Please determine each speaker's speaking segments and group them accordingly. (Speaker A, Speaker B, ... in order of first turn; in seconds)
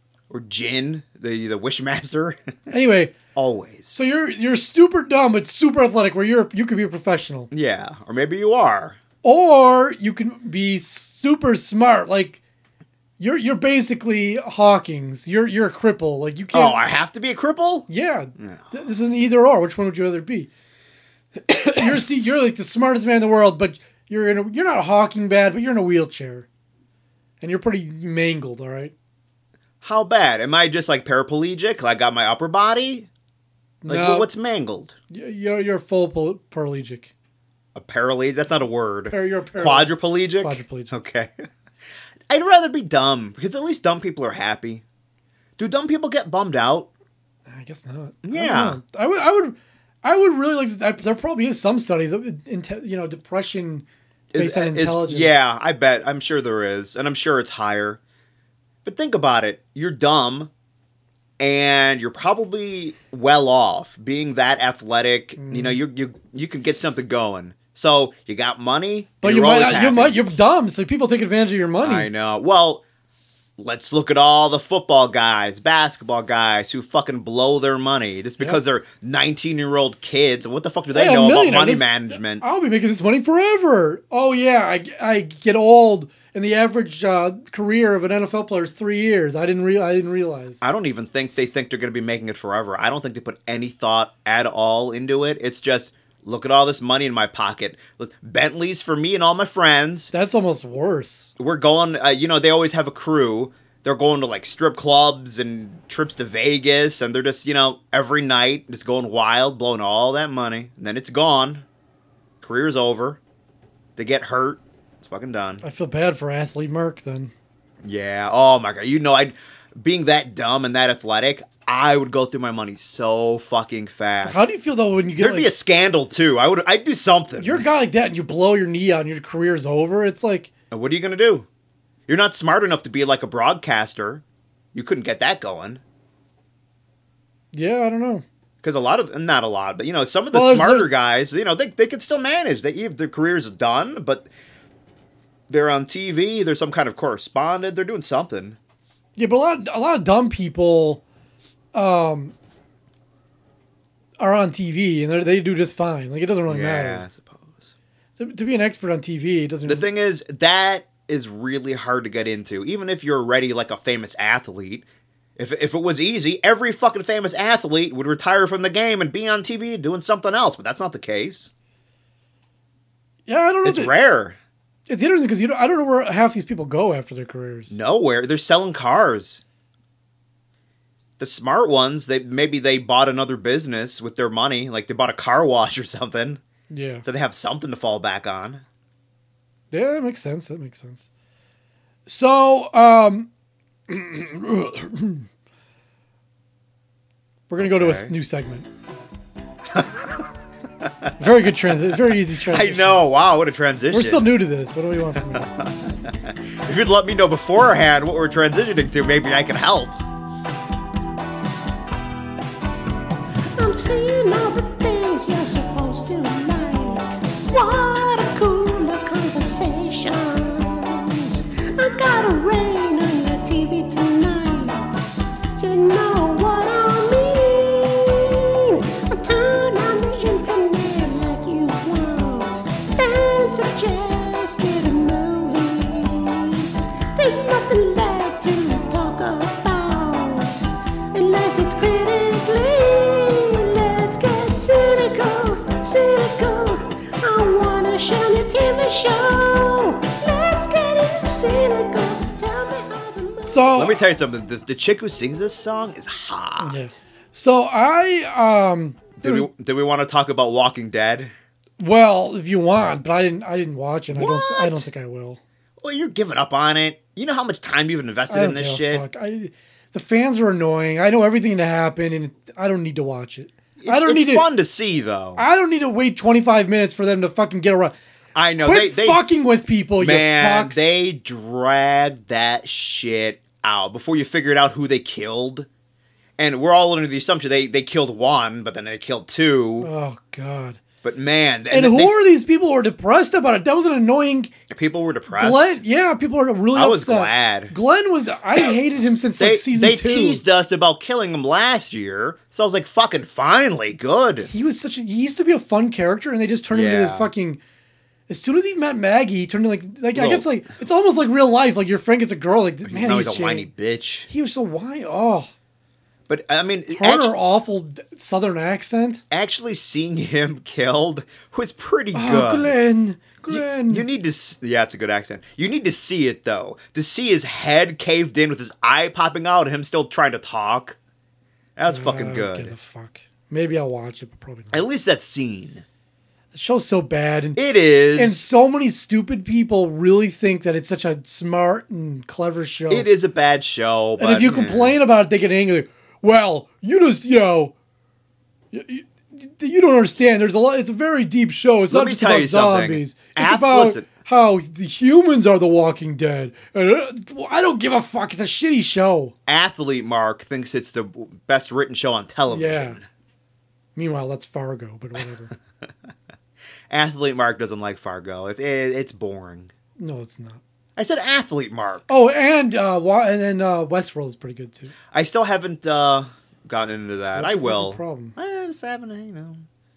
Speaker A: 0.3-2.5, 3.4-4.0, 7.5-9.0, 16.5-18.8, 21.5-21.9, 29.8-33.1, 33.9-35.0, 37.8-41.5, 42.3-44.8, 45.6-46.9, 48.2-48.8, 54.3-58.0, 58.8-60.5, 61.4-70.3, 71.8-72.8, 73.6-82.4, 90.6-100.1, 101.4-111.7, 112.4-113.2, 114.0-115.6, 117.8-124.4, 125.2-127.7, 130.7-131.5, 132.1-134.2, 134.7-135.8, 138.6-144.3, 145.5-148.6, 156.5-157.7, 159.7-164.8, 165.4-171.5, 173.6-174.4, 177.7-179.4, 181.2-186.4, 187.0-188.6, 197.6-198.1, 199.7-200.3, 200.8-201.1, 202.3-204.3, 205.3-210.0, 253.8-256.9, 259.2-261.3, 264.1-264.9, 265.8-269.1, 273.8-275.4, 278.4-279.2, 280.0-285.7, 286.4-289.9, 291.0-292.2, 294.7-295.6, 296.8-297.8, 299.4-304.5, 306.7-307.3, 310.1-310.5, 312.9-314.3, 316.3-317.3, 319.3-322.8, 323.5-331.0, 331.8-332.8, 334.7-335.9, 337.6-338.5, 342.9-345.0, 351.9-354.1, 359.5-363.0, 366.9-369.7, 371.0-372.1, 375.1-379.7
Speaker B: 2.7-3.1, 3.9-7.5, 9.2-12.4, 13.2-16.8, 17.9-20.5, 21.7-26.5, 27.4-28.9, 33.8-34.3, 35.1-37.1, 39.1-40.9, 47.5-55.3, 65.4-65.8, 69.2-72.1, 80.9-90.6, 100.1-101.3, 115.6-117.3, 124.2-125.5, 127.4-130.5, 137.5-138.2, 140.3-140.9, 149.2-151.0, 151.7-152.3, 154.2-157.1, 158.2-159.9, 173.3-173.9, 174.9-177.8, 186.7-187.1, 189.7-191.1, 192.1-193.3, 193.9-195.3, 197.5-198.7, 201.2-203.1, 203.9-205.5, 253.5-254.0, 256.6-259.5, 261.8-265.4, 268.3-274.5, 275.4-277.9, 278.6-280.9, 289.8-290.8, 291.7-294.5, 295.3-300.4, 304.4-307.6, 308.3-313.7, 314.3-315.5, 316.9-319.2, 322.1-324.1, 331.9-334.8, 336.5-337.6, 338.2-343.1, 344.2-347.7, 348.7-359.3, 362.5-363.0, 364.0-365.5, 370.0-370.6, 372.1-374.9, 377.4-378.4
Speaker C: 213.6-225.0, 225.6-253.8